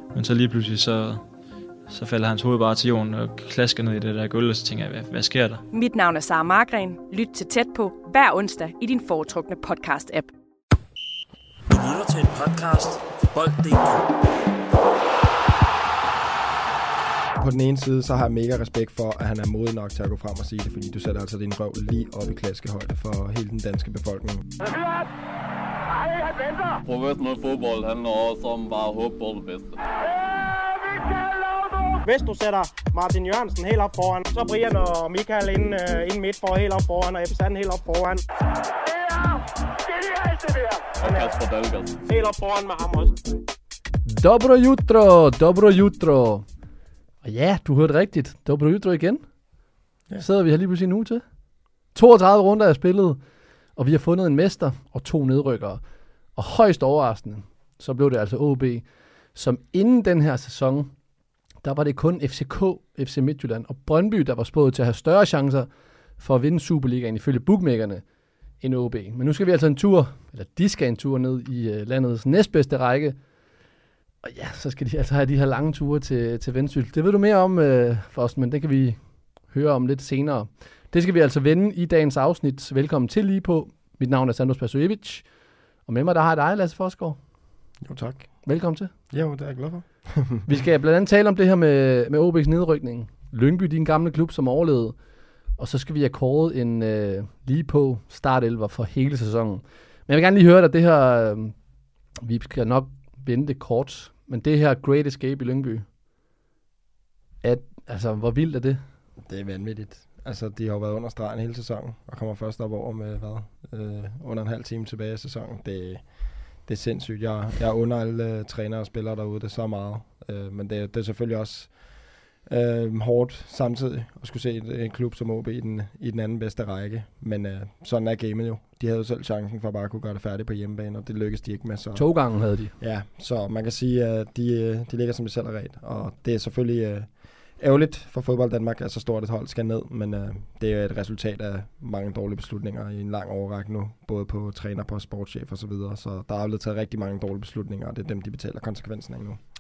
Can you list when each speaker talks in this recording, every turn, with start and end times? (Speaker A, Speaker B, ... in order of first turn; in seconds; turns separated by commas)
Speaker A: 0.1-1.2, Speaker A: 1.9-5.6, Speaker B: 5.7-10.3, Speaker C: 11.7-14.1, Speaker D: 17.4-24.5, Speaker E: 26.8-29.8, Speaker F: 32.0-38.2, Speaker E: 41.0-42.0, Speaker F: 41.0-41.3, Speaker F: 42.0-43.1, Speaker G: 44.0-46.5, Speaker G: 47.2-49.2, Speaker G: 50.2-51.2, Speaker G: 51.9-53.2, Speaker G: 53.7-55.8, Speaker G: 56.3-60.9, Speaker G: 61.6-68.0, Speaker G: 68.6-73.2, Speaker G: 74.2-85.3, Speaker G: 85.8-87.2, Speaker D: 87.8-88.4, Speaker G: 88.5-88.9, Speaker D: 89.1-90.5, Speaker G: 90.5-95.0, Speaker G: 95.6-101.5, Speaker G: 102.2-105.8, Speaker G: 107.4-108.8, Speaker D: 109.2-149.4, Speaker G: 131.9-132.7